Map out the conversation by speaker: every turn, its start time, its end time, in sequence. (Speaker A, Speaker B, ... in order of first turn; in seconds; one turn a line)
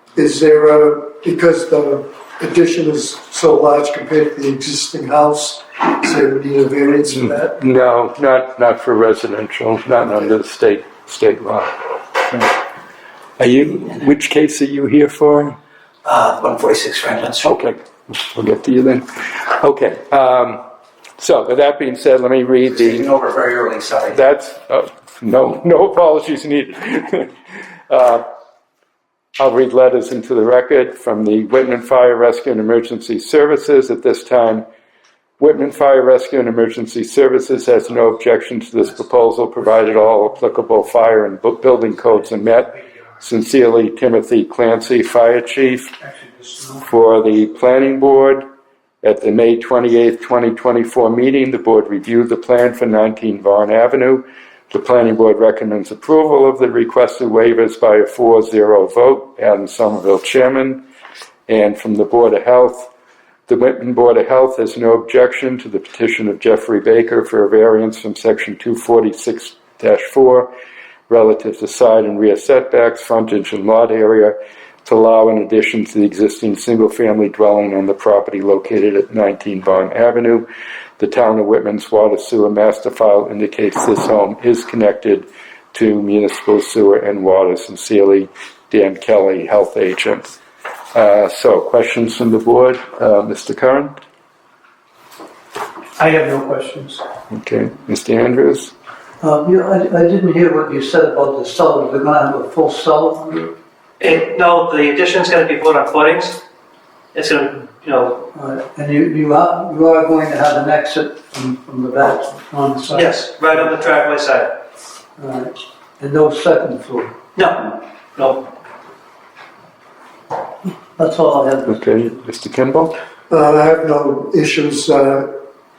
Speaker A: 0.1-7.5
Speaker B: 7.1-12.5
Speaker B: 13.4-15.6
Speaker C: 16.1-17.3
Speaker B: 17.4-20.6
Speaker B: 21.2-23.2
Speaker C: 23.1-24.1
Speaker B: 24.0-27.3
Speaker B: 27.9-28.2
Speaker B: 29.4-34.6
Speaker B: 35.4-45.9
Speaker B: 46.8-48.4
Speaker B: 49.0-60.8
Speaker B: 61.5-62.9
Speaker B: 63.5-70.5
Speaker B: 71.1-80.5
Speaker B: 81.0-90.3
Speaker B: 90.9-93.9
Speaker D: 96.0-97.0
Speaker B: 97.3-98.7
Speaker D: 99.2-103.5
Speaker E: 104.0-106.4
Speaker E: 107.1-108.3
Speaker D: 108.3-113.1
Speaker E: 112.9-114.6
Speaker D: 115.2-117.2
Speaker E: 117.3-118.5
Speaker D: 121.0-122.0
Speaker B: 121.7-123.0
Speaker A: 123.3-125.3